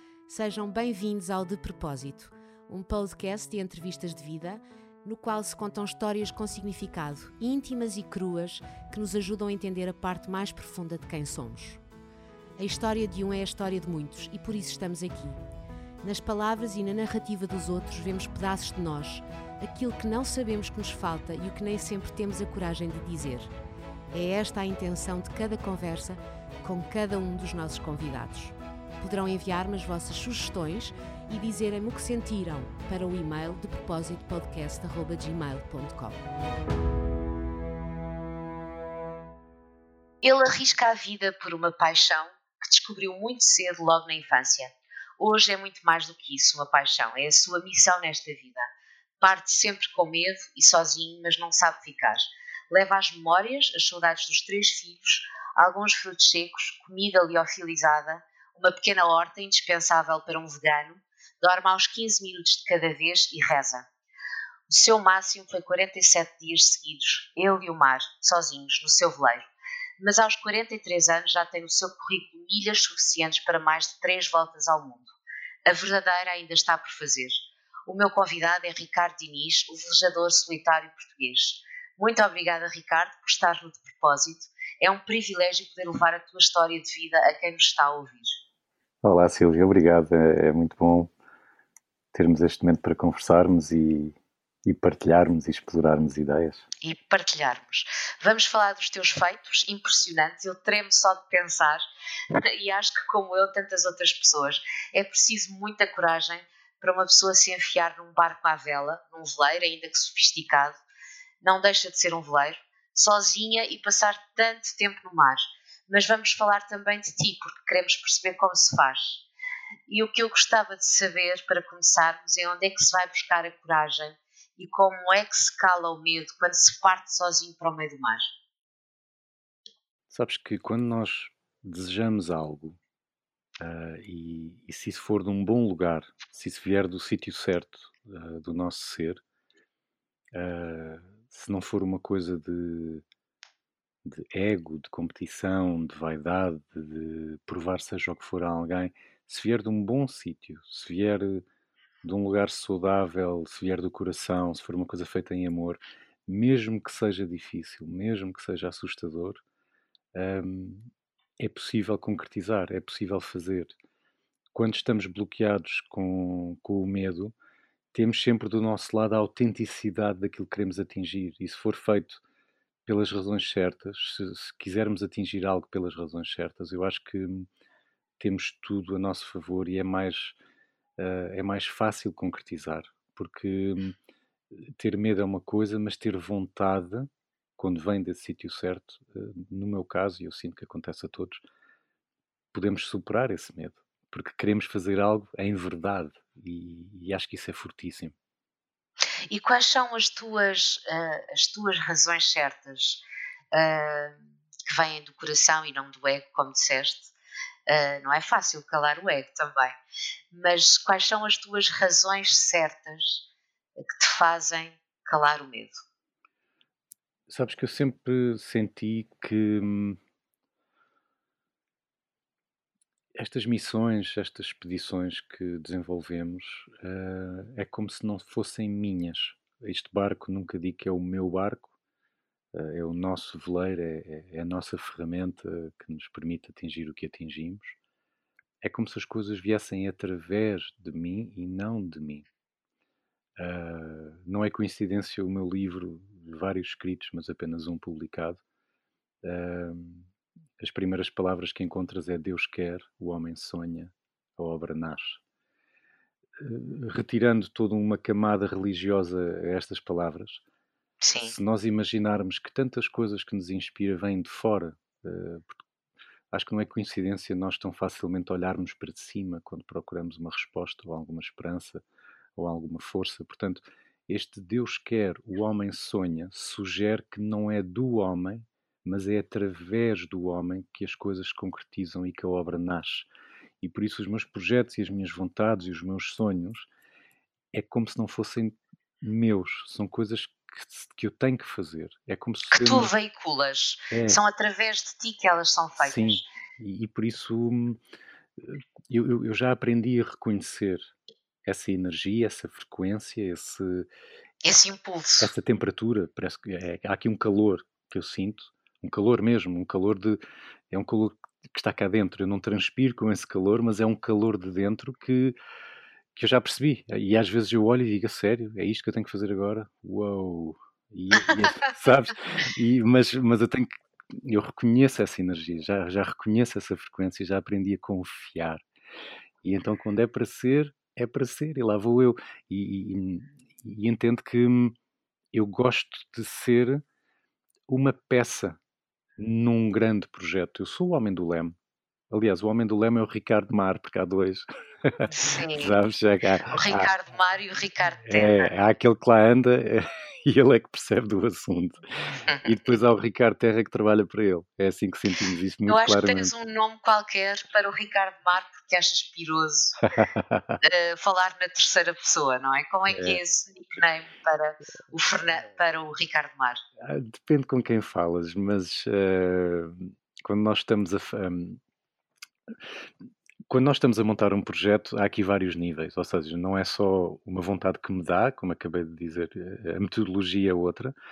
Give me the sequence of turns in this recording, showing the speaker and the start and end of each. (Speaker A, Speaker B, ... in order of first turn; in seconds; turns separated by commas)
Speaker A: 0.3-11.8, Speaker A: 12.6-15.4, Speaker A: 16.0-23.5, Speaker A: 24.1-36.2, Speaker B: 40.2-48.7, Speaker B: 49.2-63.9, Speaker B: 64.7-75.1, Speaker B: 75.7-88.4, Speaker C: 89.0-91.1, Speaker C: 92.1-96.7, Speaker B: 96.8-101.8, Speaker B: 102.3-110.8, Speaker B: 111.4-119.2, Speaker B: 119.9-128.3, Speaker C: 130.1-132.8, Speaker C: 133.6-139.2, Speaker C: 140.3-143.0, Speaker C: 144.0-151.4, Speaker C: 152.0-159.4, Speaker C: 160.1-163.7, Speaker C: 164.5-167.3, Speaker C: 167.9-172.2, Speaker C: 172.8-177.5, Speaker C: 178.2-180.3, Speaker C: 181.0-183.9, Speaker C: 184.6-191.4, Speaker C: 192.5-198.1, Speaker B: 199.3-203.0, Speaker B: 203.5-207.1, Speaker B: 207.7-209.8, Speaker B: 210.3-213.2, Speaker B: 213.9-215.8, Speaker C: 217.3-220.0, Speaker C: 223.2-231.7, Speaker C: 232.5-237.8, Speaker C: 238.6-242.2, Speaker C: 243.4-248.4, Speaker C: 249.2-250.1, Speaker C: 250.6-255.2, Speaker C: 256.4-260.4, Speaker B: 261.0-261.4, Speaker C: 261.2-265.6, Speaker C: 266.3-271.8, Speaker C: 272.4-283.1, Speaker C: 283.6-286.7, Speaker C: 287.5-292.9, Speaker B: 292.5-296.2, Speaker C: 293.9-294.2, Speaker C: 295.8-297.8, Speaker C: 298.4-300.9, Speaker C: 301.4-303.9, Speaker B: 304.4-305.3, Speaker C: 305.2-315.4, Speaker C: 316.1-328.6, Speaker B: 321.1-321.6, Speaker C: 329.4-334.8, Speaker C: 335.3-336.8, Speaker C: 337.7-338.6, Speaker C: 339.2-341.6, Speaker C: 342.1-346.9, Speaker B: 345.1-345.8, Speaker B: 346.5-348.5, Speaker C: 348.0-356.3, Speaker B: 352.3-352.8, Speaker B: 355.6-359.8, Speaker C: 360.0-360.6, Speaker B: 360.6-366.6, Speaker C: 362.9-363.2, Speaker C: 366.8-371.6, Speaker C: 373.4-380.9